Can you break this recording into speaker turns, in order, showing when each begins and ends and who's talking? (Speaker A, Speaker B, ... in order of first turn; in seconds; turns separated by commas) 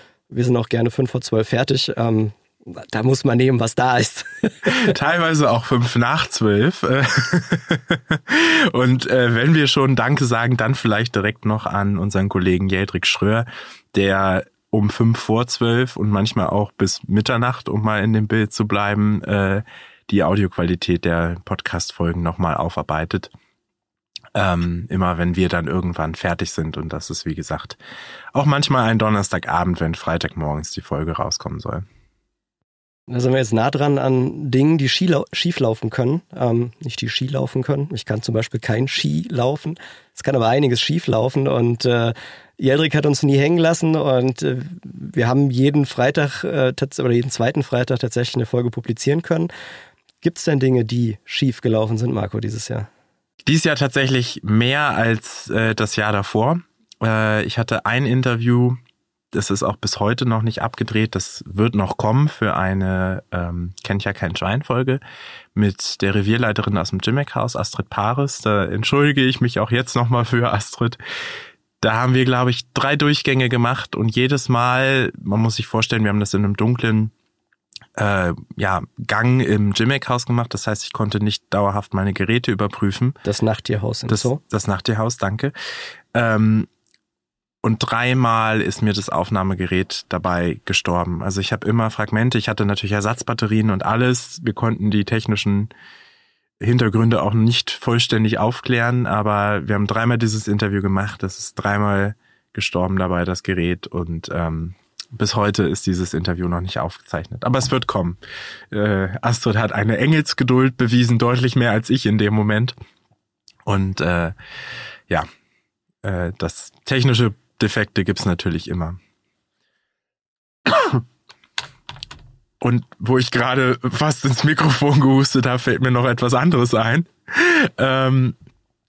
Speaker A: 0.3-4.9, Speaker B: 4.6-23.3, Speaker B: 24.3-27.8, Speaker B: 28.3-31.8, Speaker A: 33.1-49.5, Speaker A: 50.2-52.9, Speaker B: 53.4-58.8, Speaker B: 59.3-65.0, Speaker B: 65.5-71.0, Speaker B: 71.8-77.1, Speaker B: 78.0-83.2, Speaker A: 83.2-84.4, Speaker B: 84.1-85.5, Speaker B: 86.1-86.7, Speaker B: 87.6-95.7, Speaker B: 96.6-108.2, Speaker B: 108.7-112.7, Speaker B: 113.7-114.3, Speaker B: 116.0-119.0, Speaker B: 120.7-121.0, Speaker B: 122.6-128.4